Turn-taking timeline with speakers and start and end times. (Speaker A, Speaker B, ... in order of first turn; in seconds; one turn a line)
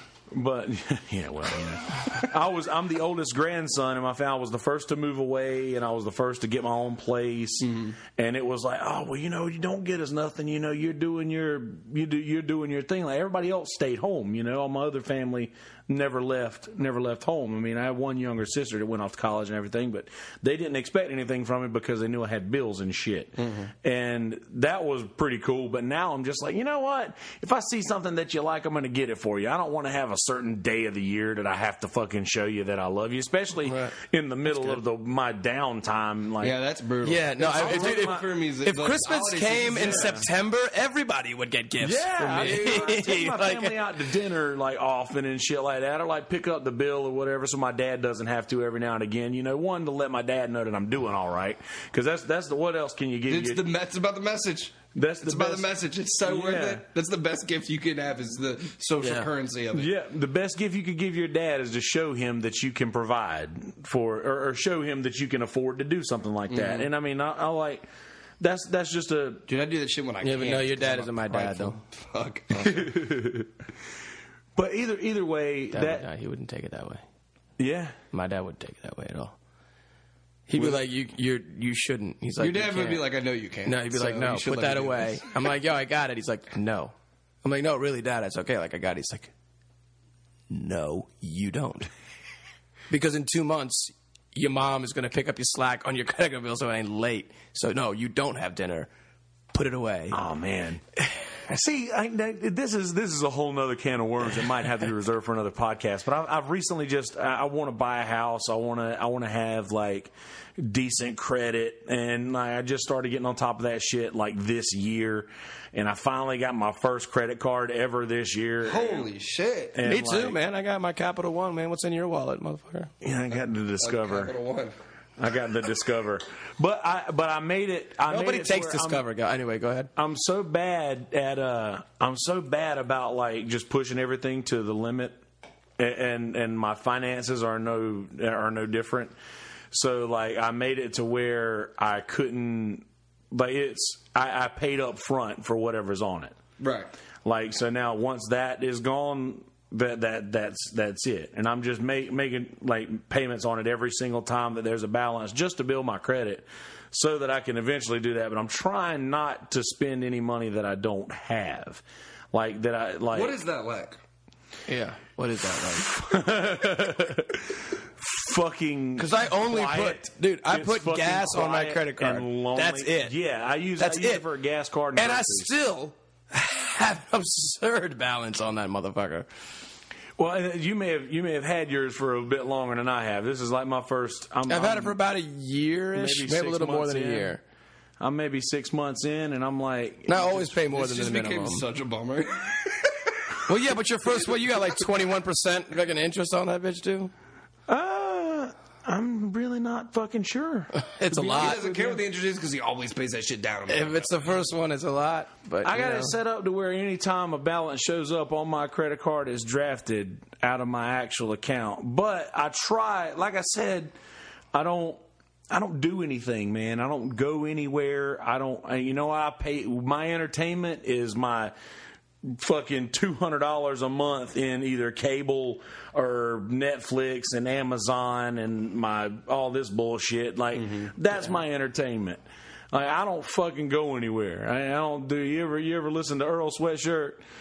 Speaker A: 0.3-36.5
Speaker B: 7.6-8.0
Speaker B: 23.4-23.7
Speaker C: 33.6-33.9
Speaker B: 36.4-40.2
Speaker C: 37.0-43.8
Speaker A: 37.4-38.2
Speaker A: 39.7-40.2
Speaker A: 41.8-53.6
Speaker B: 53.3-59.9
Speaker A: 55.0-55.7
Speaker A: 56.2-56.8
Speaker C: 59.0-59.3
Speaker A: 59.7-67.8
Speaker B: 66.5-66.9
Speaker A: 68.4-69.5
Speaker B: 69.5-73.1
Speaker C: 70.2-71.8
Speaker A: 72.6-73.5
Speaker A: 74.6-76.1
Speaker C: 75.7-77.0
Speaker A: 77.6-78.0
Speaker C: 78.1-79.4
Speaker C: 80.5-83.1
Speaker B: 82.4-85.4
Speaker C: 83.7-89.3
Speaker C: 90.5-91.9
Speaker C: 92.9-98.9
Speaker C: 99.5-100.2
Speaker A: 100.1-100.8
Speaker A: 101.5-119.1
Speaker B: 118.6-119.8
Speaker A: 119.7-120.4
Speaker C: 119.8-122.9
Speaker A: 123.0-124.3
Speaker B: 123.8-124.7
Speaker A: 125.2-129.1
Speaker C: 128.1-129.9
Speaker A: 130.0-135.2
Speaker A: 135.8-139.1
Speaker A: 139.7-146.4
Speaker B: 146.6-146.9
Speaker A: 147.2-163.4
Speaker B: 163.1-164.0
Speaker C: 164.7-165.9
Speaker A: 165.7-175.5
Speaker C: 169.0-173.1
Speaker C: 173.8-174.2
Speaker C: 174.9-179.3
Speaker A: 180.2-185.0
Speaker C: 184.5-187.4
Speaker A: 185.9-187.3
Speaker A: 188.0-190.3
Speaker C: 190.1-191.7
Speaker B: 190.7-193.1
Speaker C: 193.5-197.1
Speaker A: 197.7-201.6
Speaker C: 200.8-202.0
Speaker B: 201.2-204.2
Speaker C: 203.7-206.1
Speaker A: 205.6-213.9
Speaker A: 214.5-221.5
Speaker A: 222.3-232.2
Speaker B: 230.6-230.9
Speaker A: 232.7-237.2